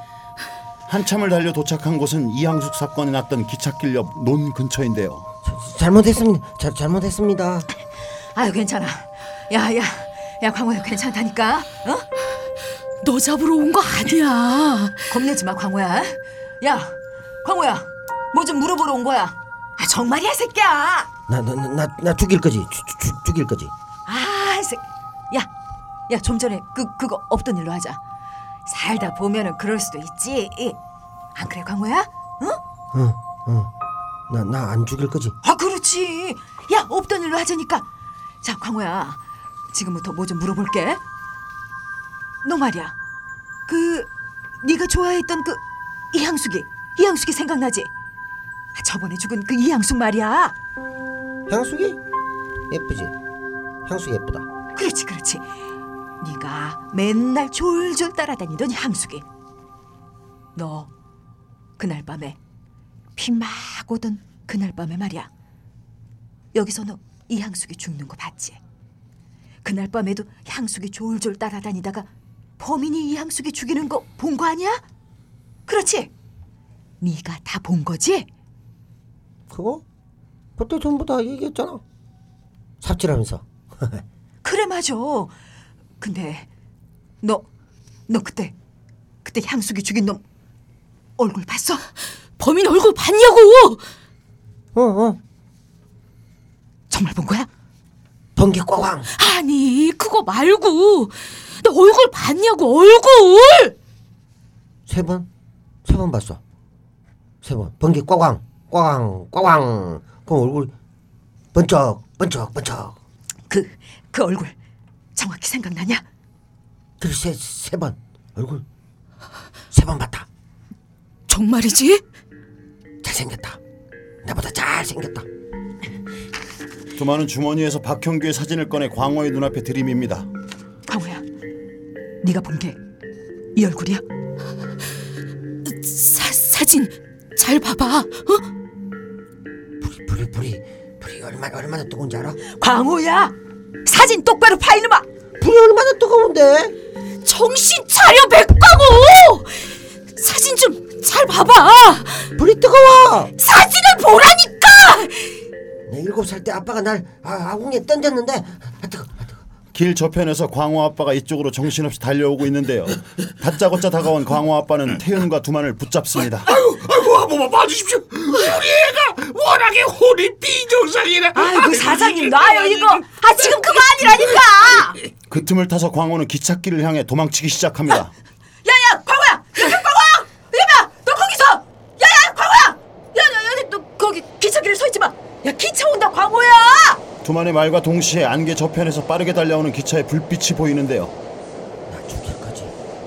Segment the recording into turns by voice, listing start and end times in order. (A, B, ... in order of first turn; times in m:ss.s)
0:00.9-0:05.3 A
0:05.4-0:07.7 B
0:08.2-0:12.1 C
0:13.0-0:15.1 D
0:15.1-0:21.1 C
0:21.3-0:23.7 B
0:24.0-0:25.5 C
0:26.1-0:28.0 C
0:28.6-0:30.8 C
0:31.3-0:32.6 C
0:32.9-0:33.7 B
0:34.3-0:35.4 B
0:35.4-0:37.9 C
0:38.4-0:41.0 C
0:42.4-0:43.0 C
0:43.6-0:47.9 C
0:48.7-0:50.6 C
0:51.5-0:52.0 B
0:52.7-0:53.1 B
0:53.8-0:54.5 B
0:54.7-0:55.5 C
0:56.2-0:59.2 C
1:00.5-1:00.9 C
1:01.8-1:02.4 C
1:03.2-1:05.3 C
1:06.5-1:08.6 C
1:09.6-1:14.8 C
1:15.6-1:16.1 C
1:17.0-1:18.3 C
1:19.5-1:19.8 B
1:20.6-1:21.8 B
1:22.8-1:24.0 B
1:24.4-1:25.3 C
1:26.0-1:26.5 C
1:27.2-1:27.5 C
1:28.1-1:28.5 C
1:29.2-1:30.2 C
1:31.2-1:31.8 C
1:32.4-1:33.9 D
1:34.7-1:35.2 B
1:36.9-1:37.5 C
1:38.4-1:39.1 B
1:39.1-1:43.8 D
1:44.9-1:45.3 B
1:45.8-1:46.4 B
1:47.4-1:50.7 B
1:51.5-1:53.0 B
1:53.5-1:54.6 C
1:55.1-1:56.0 C
1:57.0-1:58.6 B
1:59.7-2:00.3 B
2:01.3-2:02.0 D
2:03.0-2:03.6 B
2:04.2-2:05.2 B
2:07.0-2:10.3 A
2:10.8-2:11.2 C
2:12.2-2:12.8 C
2:13.5-2:14.0 C
2:15.6-2:18.5 D
2:19.8-2:22.4 B
2:22.4-2:25.1 C
2:25.4-2:26.8 B
2:27.2-2:31.5 D
2:31.4-2:32.0 C
2:32.4-2:33.3 B
2:33.4-2:35.3 C
2:34.4-2:34.7 D
2:35.9-2:39.4 B
2:39.7-2:46.6 A
2:46.9-2:48.2 E
2:48.9-2:51.3 E
2:51.3-2:55.0 C
2:55.3-2:58.1 A
2:58.6-3:07.0 C
3:07.2-3:11.1 A
3:11.9-3:12.7 B